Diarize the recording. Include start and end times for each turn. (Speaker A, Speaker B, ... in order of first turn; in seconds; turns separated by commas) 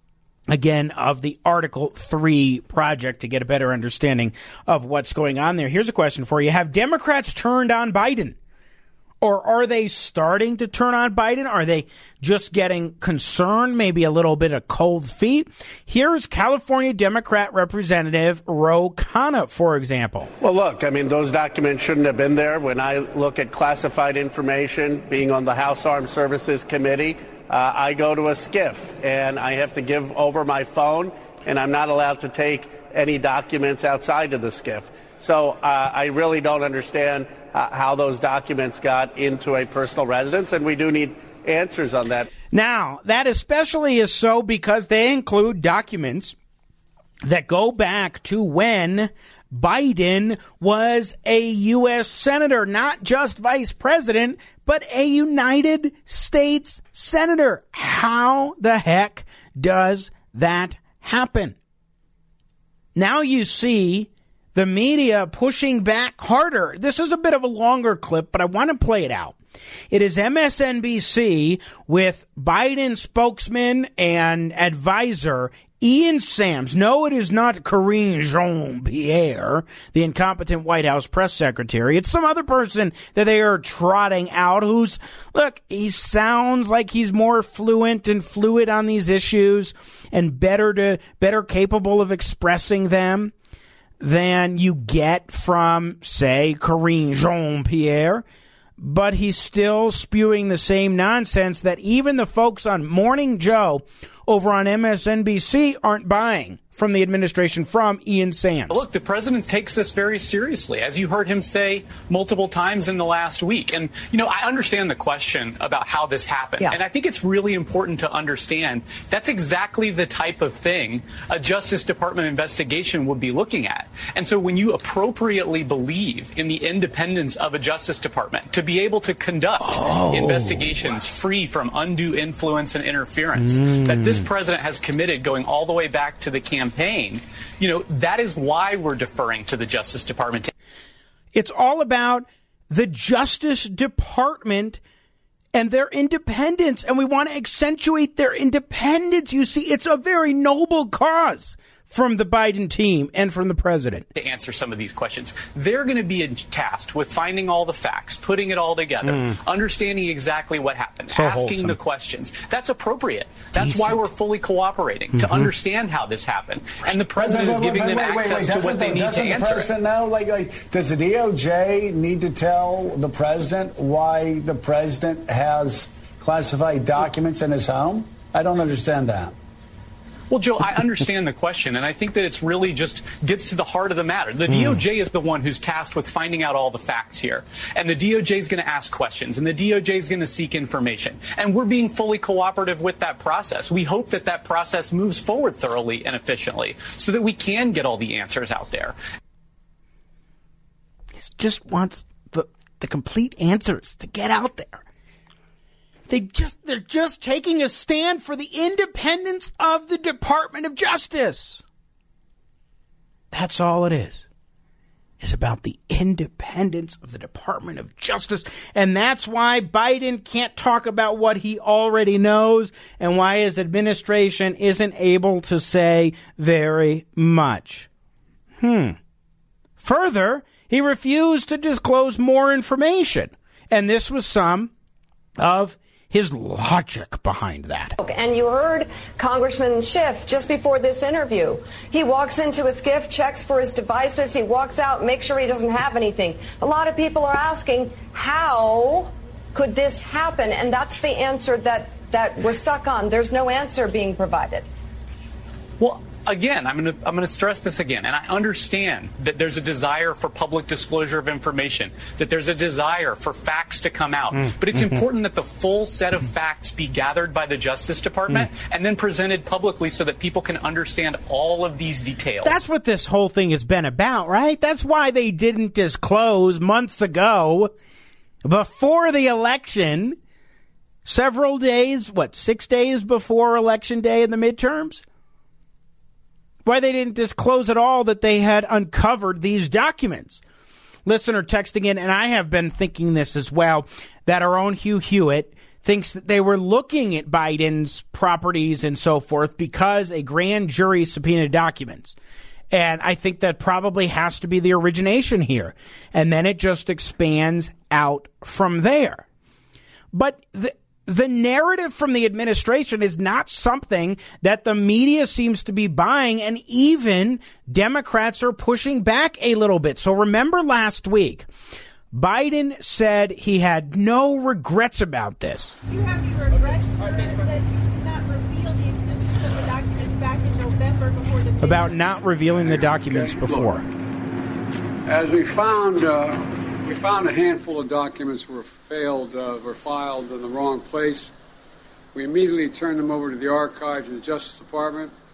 Speaker A: 0.5-8.4, Speaker A: 9.2-20.3, Speaker B: 20.4-42.3, Speaker A: 42.5-46.4, Speaker A: 47.2-61.6, Speaker A: 63.0-69.4, Speaker A: 69.9-93.3, Speaker A: 94.0-98.2, Speaker A: 98.8-108.8, Speaker C: 108.7-140.5, Speaker A: 129.6-130.9, Speaker A: 133.4-134.2, Speaker A: 141.3-144.8, Speaker A: 145.6-154.1, Speaker C: 154.2-169.7, Speaker A: 159.1-159.4, Speaker A: 161.1-161.8, Speaker A: 163.6-164.1, Speaker A: 165.2-165.4, Speaker D: 167.1-179.3, Speaker C: 180.3-198.9, Speaker A: 201.2-204.8, Speaker A: 206.1-211.6, Speaker A: 213.3-214.2, Speaker A: 215.2-227.9, Speaker A: 228.6-229.0, Speaker A: 229.8-234.7, Speaker A: 235.4-238.0, Speaker E: 238.0-254.7, Speaker C: 255.8-272.6, Speaker A: 264.4-265.0, Speaker A: 272.4-277.7, Speaker A: 278.4-280.2, Speaker A: 281.1-285.0, Speaker A: 286.7-290.4, Speaker A: 291.1-302.2, Speaker A: 302.7-309.2, Speaker A: 310.1-321.5, Speaker A: 322.1-325.7, Speaker F: 325.9-332.2, Speaker A: 331.6-333.9, Speaker G: 333.1-333.8, Speaker G: 335.1-341.3, Speaker G: 342.1-345.1